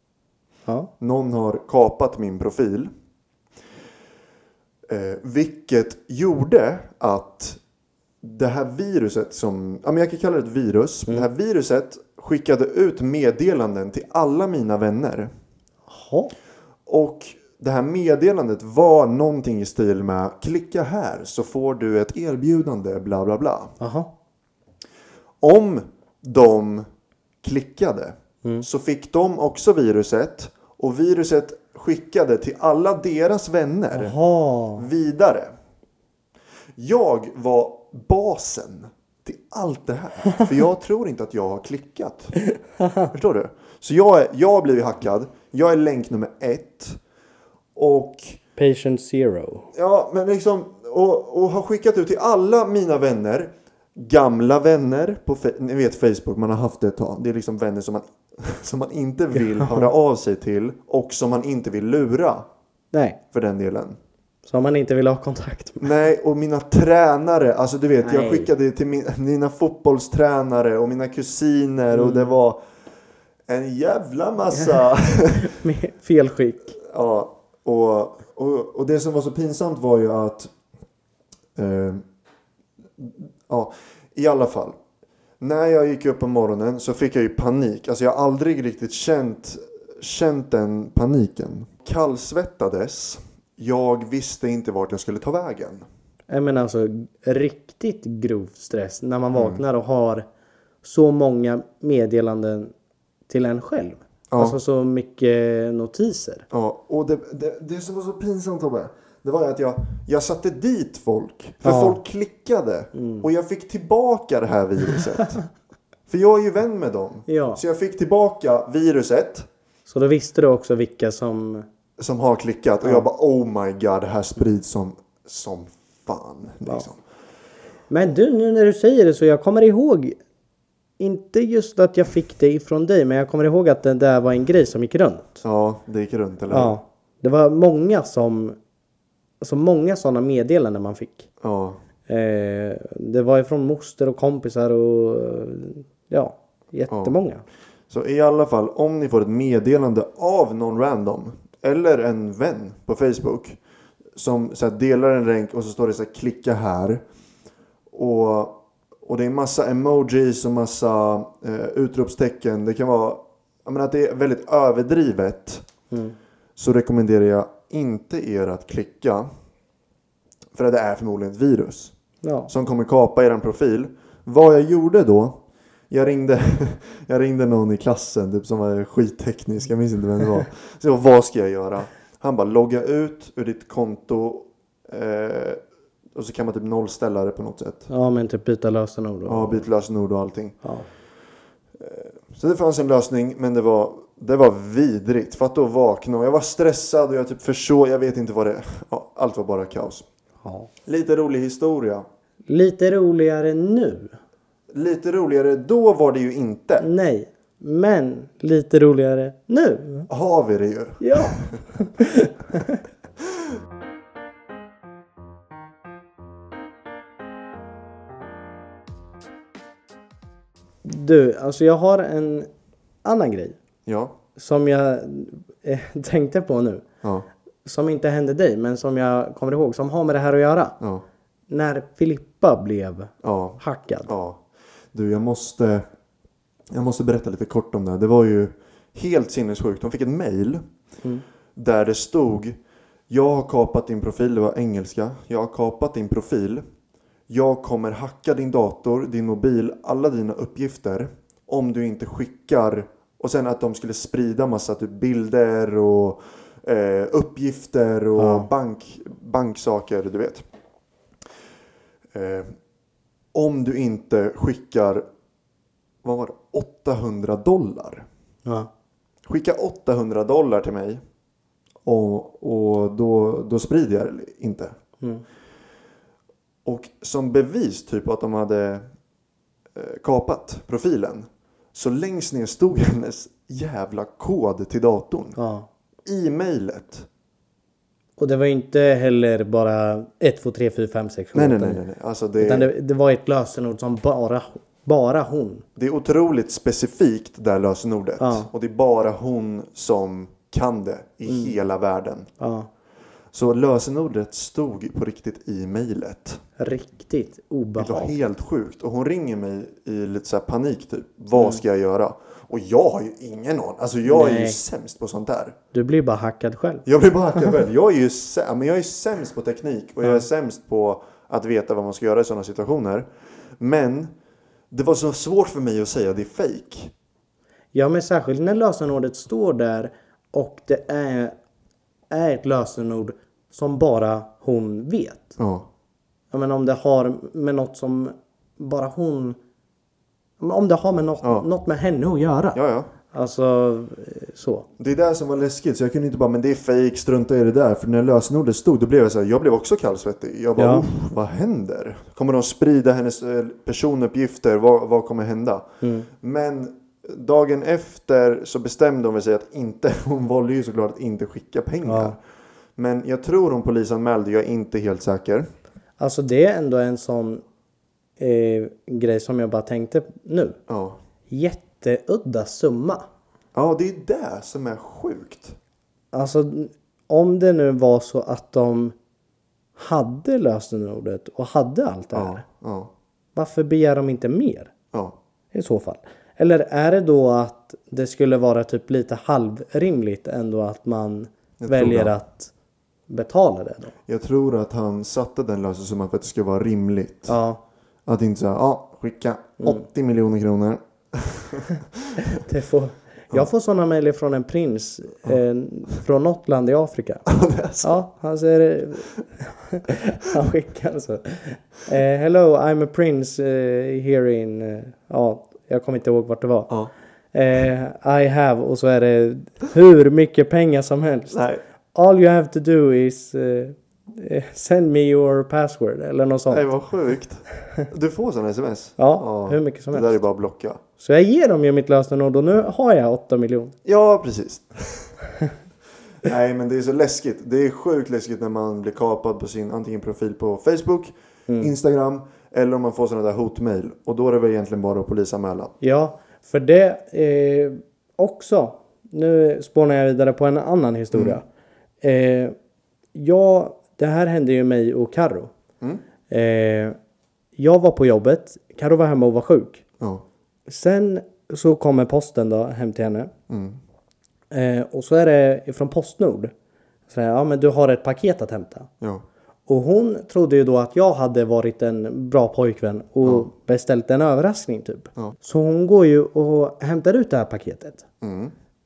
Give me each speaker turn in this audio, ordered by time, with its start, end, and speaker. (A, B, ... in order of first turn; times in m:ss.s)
0:01.0-0:02.9 A
0:04.9-0:07.6 A
0:08.2-0:15.3 A
0:15.9-0:16.3 B
0:16.9-0:23.8 A
0:23.8-0:24.1 B
0:25.4-0:26.9 A
0:27.4-0:34.2 A
0:33.9-0:34.9 B
0:34.8-0:35.5 A
0:36.8-0:42.3 A
0:42.8-0:43.1 B
0:43.1-0:47.0 A
0:47.8-0:48.4 A
0:48.6-0:49.7 B
0:49.7-1:02.5 A
0:59.4-0:59.9 B
1:02.9-1:03.2 B
1:03.3-1:04.0 A
1:04.4-1:05.9 B
1:05.8-1:12.6 A
1:08.0-1:08.5 B
1:11.9-1:12.3 B
1:13.5-1:15.6 A
1:14.5-1:16.8 B
1:16.8-1:20.5 A
1:21.6-1:22.0 A
1:23.0-1:24.8 A
1:25.4-1:35.9 A
1:36.3-1:40.2 B
1:39.3-1:39.6 A
1:40.8-1:42.7 B
1:43.3-1:46.5 B
1:44.3-1:44.6 A
1:46.5-1:55.4 A
1:51.6-1:52.0 B
1:53.0-1:53.3 B
1:56.1-1:59.5 A
1:57.3-1:57.6 B
1:59.9-2:01.7 B
2:02.0-2:07.0 A
2:07.9-2:10.2 B
2:11.0-2:15.4 B
2:15.4-2:16.8 A
2:16.5-2:18.6 B
2:19.4-2:21.3 B
2:21.4-2:21.8 A
2:22.1-2:27.4 B
2:26.9-2:27.2 A
2:27.9-2:33.6 A
2:34.2-2:37.0 A
2:37.9-2:45.7 A
2:45.9-2:46.2 B
2:46.6-2:49.3 A
2:50.6-2:51.9 A
2:52.2-2:52.5 B
2:52.5-3:05.6 A
3:06.1-3:07.9 A
3:07.9-3:09.7 B
3:09.3-3:10.6 A
3:11.8-3:20.1 A
3:20.4-3:20.7 B
3:20.9-3:22.1 A
3:22.5-3:24.2 B
3:24.7-3:26.9 A
3:26.8-3:30.1 B
3:30.1-3:31.5 A
3:31.0-3:32.8 B
3:40.8-3:42.5 B
3:43.0-3:43.6 B
3:43.9-3:44.2 A
3:44.4-3:46.8 B
3:47.6-3:50.8 B
3:50.8-3:51.0 A
3:51.5-3:54.1 B
3:53.2-3:55.9 A
3:56.7-4:00.6 A
4:01.6-4:06.6 A
4:07.3-4:20.4 A
4:18.2-4:18.5 B
4:22.1-4:22.5 A
4:23.3-4:25.0 A
4:26.0-4:28.1 A
4:29.3-4:31.0 A
4:31.8-4:34.7 A
4:36.6-4:38.9 A
4:39.7-4:45.4 A
4:45.4-4:45.7 B
4:46.0-4:47.1 A
4:48.2-4:51.8 B
4:51.3-4:52.7 A
4:52.4-4:55.6 B
4:55.8-5:02.3 A
4:58.2-4:58.5 B
5:01.3-5:01.5 B
5:02.4-5:02.7 B
5:03.3-5:06.4 A
5:06.6-5:08.1 B
5:07.8-5:15.6 A
5:11.4-5:11.6 B
5:14.0-5:14.6 B
5:15.7-5:16.8 B
5:16.9-5:23.1 A
5:23.6-5:24.1 A
5:24.7-5:26.9 A
5:27.7-5:31.3 B
5:32.1-5:35.4 B
5:35.4-5:35.7 A
5:36.3-5:39.4 B
5:40.4-5:42.6 B
5:41.2-5:41.5 A
5:42.5-5:42.9 A
5:43.1-5:44.7 B
5:44.8-6:02.2 A
5:50.6-5:50.9 B
5:55.8-5:56.1 B
6:01.8-6:02.2 B
6:02.8-6:05.5 A
6:06.0-6:07.4 B
6:08.2-6:10.6 B
6:10.7-6:11.0 A
6:11.3-6:13.0 B
6:13.6-6:15.6 A
6:16.1-6:19.0 B
6:19.8-6:22.4 B
6:22.1-6:22.9 A
6:23.4-6:24.7 B
6:25.5-6:32.5 B
6:31.6-6:32.1 A
6:33.1-6:34.0 B
6:34.1-6:37.4 A
6:37.3-6:37.6 B
6:38.1-6:42.4 A
6:42.2-6:47.3 B
6:47.3-6:48.0 A
6:47.8-6:56.7 B
6:57.3-7:01.4 B
7:01.3-7:01.6 A
7:01.9-7:06.7 B
7:06.5-7:10.8 A
7:09.0-7:10.2 B
7:11.0-7:13.8 B
7:13.8-7:15.1 A
7:16.2-7:25.7 A
7:25.8-7:31.4 B
7:31.1-7:31.4 A
7:32.0-7:32.6 B
7:33.1-7:35.5 B
7:36.3-7:37.0 B
7:37.6-7:39.8 B
7:40.7-7:43.3 B
7:43.5-7:43.8 A
7:44.5-7:46.5 B
7:47.1-7:48.9 B
7:49.7-7:58.1 B
7:53.2-7:53.5 A
7:58.2-7:58.5 A